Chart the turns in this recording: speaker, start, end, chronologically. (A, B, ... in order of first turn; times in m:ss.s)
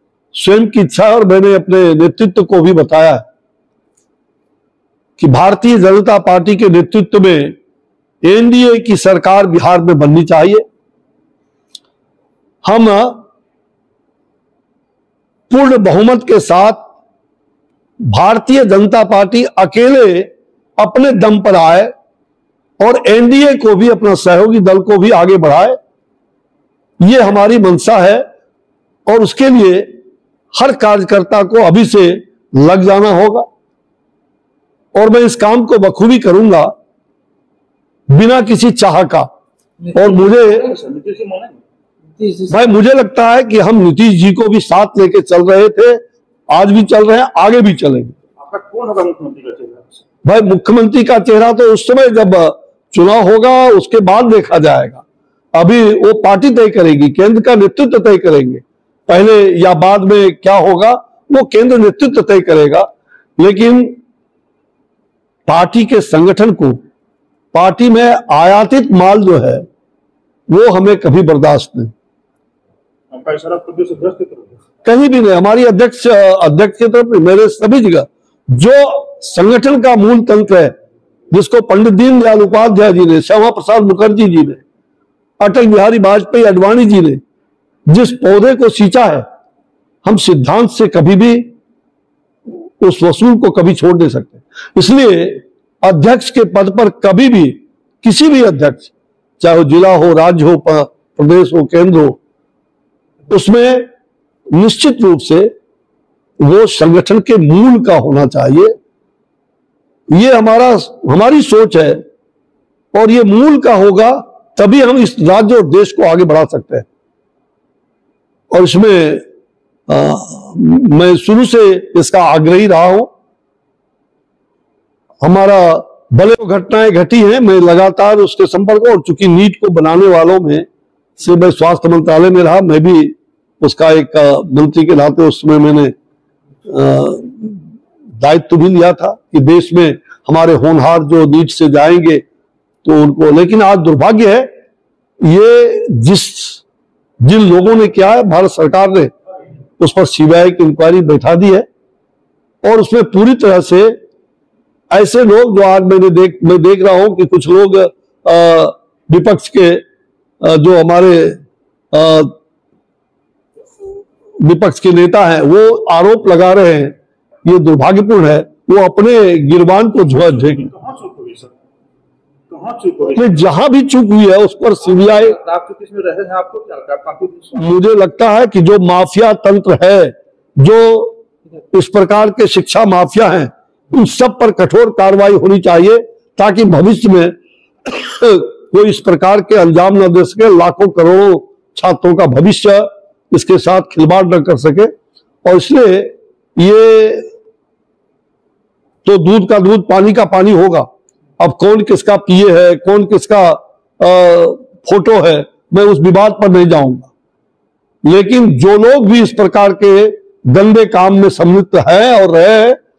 0:00.3-0:03.2 A
0:05.2-0:07.6 A
0:08.2-0:10.6 A
0:12.6-0:13.2 A
0:15.5-0:16.9 A
0:18.0-0:21.9 A
0:22.8-0:25.8 A
0:27.0-0:28.2 A
0:29.0-0:29.9 A
0:30.5-0:33.5 A
0:34.9-0:36.7 A
0:38.1-0:39.3 A
0:39.9-0:40.7 A
0:40.0-0:41.6 B
0:42.4-0:48.2 A
0:48.4-0:50.0 B
0:50.2-0:55.0 A
0:55.5-1:04.0 A
1:05.5-1:06.8 A
1:07.5-1:09.6 A
1:10.5-1:11.9 A
1:13.1-1:14.6 B
1:14.8-1:20.7 A
1:21.3-1:24.6 A
1:25.4-1:27.2 A
1:27.9-1:29.2 A
1:30.0-1:31.5 A
1:32.5-1:42.2 A
1:43.3-1:43.8 A
1:44.5-1:45.5 A
1:46.4-1:48.7 A
1:50.1-1:52.0 A
1:52.9-1:56.8 A
1:58.5-1:59.2 A
1:59.9-2:03.1 A
2:05.2-2:10.6 A
2:11.2-2:15.9 A
2:16.7-2:17.6 A
2:18.2-2:22.2 A
2:22.8-2:24.5 A
2:25.2-2:26.6 A
2:27.2-2:29.1 A
2:29.8-2:31.6 A
2:32.6-2:33.9 A
2:34.9-2:39.8 A
2:40.4-2:41.4 A
2:41.9-2:42.3 A
2:44.4-2:50.7 A
2:50.4-2:51.5 B
2:52.5-2:53.4 B
2:53.2-2:55.4 A
2:54.8-2:57.7 B
2:57.6-3:01.2 A
3:01.7-3:07.3 A
3:07.8-3:14.9 A
3:15.4-3:17.3 A
3:19.0-3:20.9 A
3:21.4-3:27.1 A
3:28.0-3:32.8 A